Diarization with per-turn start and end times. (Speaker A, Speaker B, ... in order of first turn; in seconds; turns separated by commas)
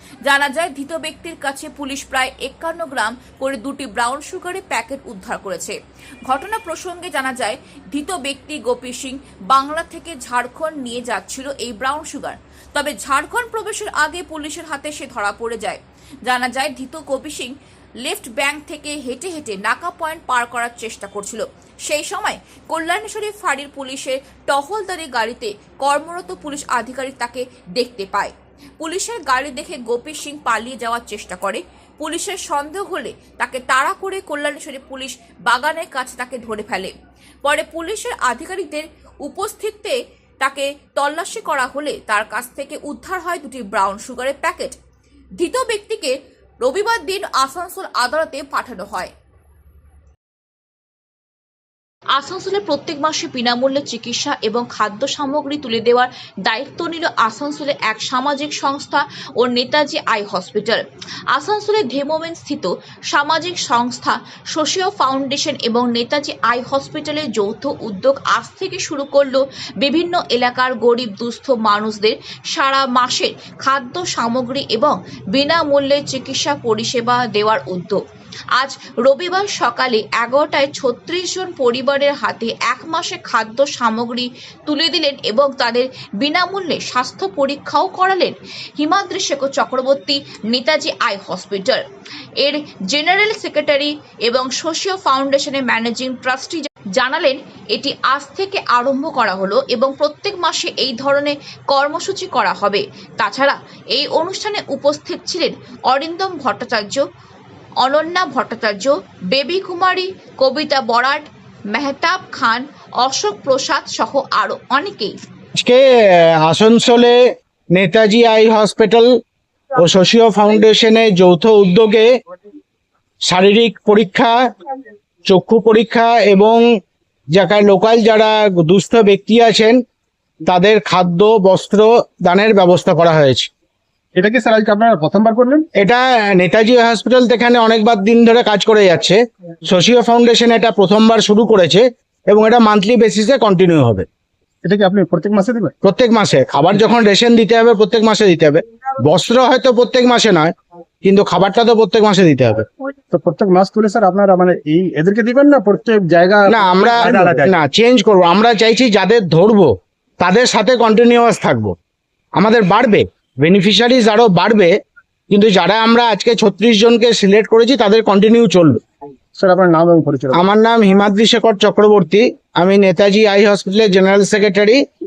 Speaker A: 0.2-36.9, Speaker A: 37.4-44.8, Speaker A: 45.4-49.1, Speaker A: 52.1-78.0, Speaker A: 78.6-91.8, Speaker A: 92.4-107.0, Speaker A: 107.8-115.2, Speaker B: 115.6-117.2, Speaker B: 117.8-119.1, Speaker B: 119.8-122.1, Speaker B: 123.3-124.4, Speaker B: 125.3-126.6, Speaker B: 127.3-129.8, Speaker B: 130.4-133.5, Speaker C: 134.2-135.7, Speaker B: 135.8-144.1, Speaker C: 144.6-145.7, Speaker B: 145.8-152.7, Speaker C: 153.1-157.6, Speaker B: 156.5-159.7, Speaker B: 160.2-161.8, Speaker B: 162.4-164.7, Speaker B: 165.3-168.8, Speaker C: 169.3-170.4, Speaker B: 170.3-174.8